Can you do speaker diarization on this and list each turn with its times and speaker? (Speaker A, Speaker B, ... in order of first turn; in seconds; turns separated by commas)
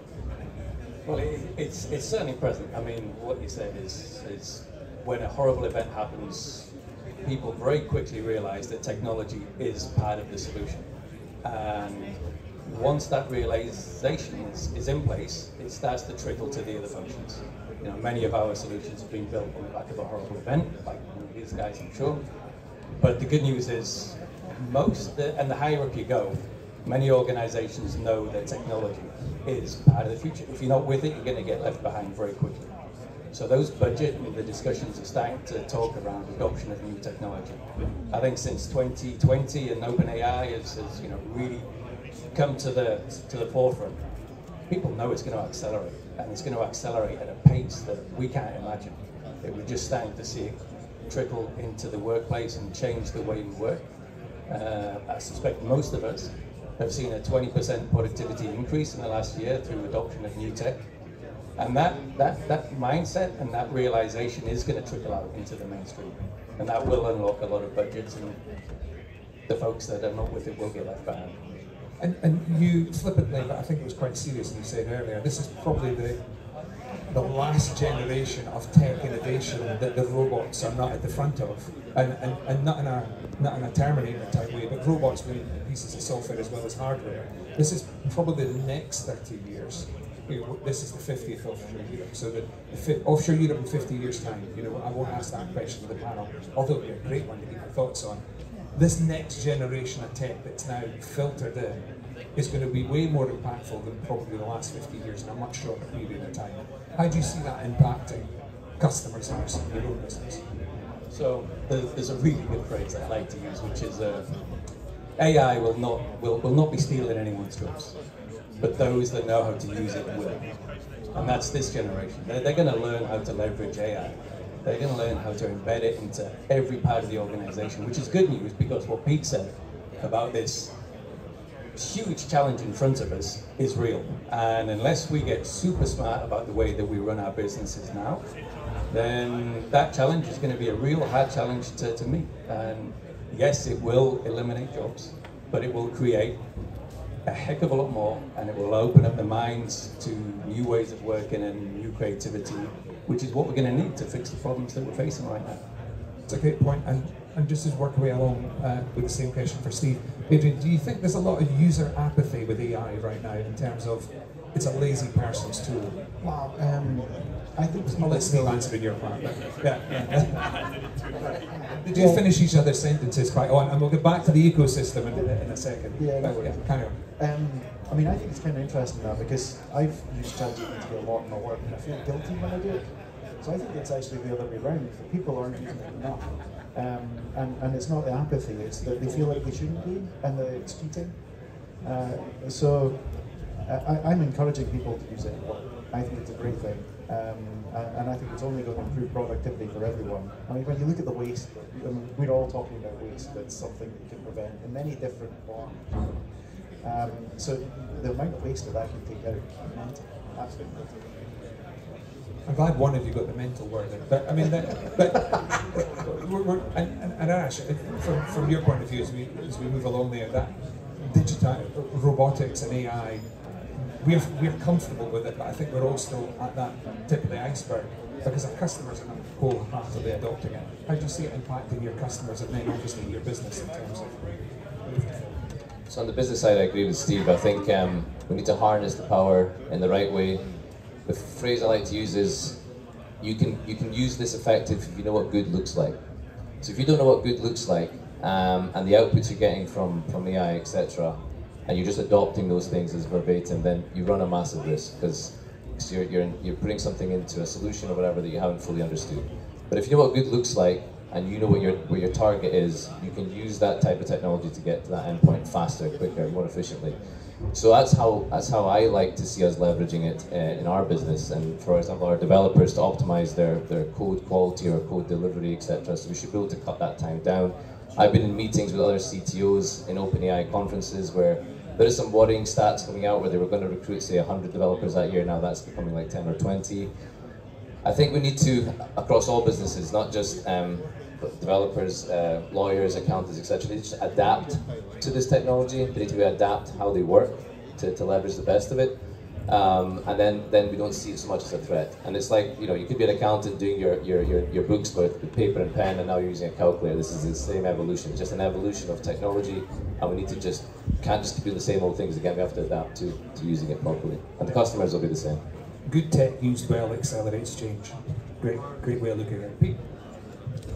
Speaker A: 1.0-61.0, Speaker A: 61.5-68.9, Speaker A: 69.4-71.4, Speaker B: 72.0-110.5, Speaker A: 111.1-131.1, Speaker A: 131.7-155.6, Speaker B: 156.3-166.0, Speaker C: 166.2-169.2, Speaker B: 167.8-171.1, Speaker C: 171.2-172.3, Speaker B: 171.8-177.1, Speaker C: 174.6-211.2, Speaker B: 212.4-235.5, Speaker C: 214.9-215.4, Speaker D: 235.9-287.3, Speaker D: 287.8-315.4, Speaker B: 314.4-315.3, Speaker B: 315.8-319.9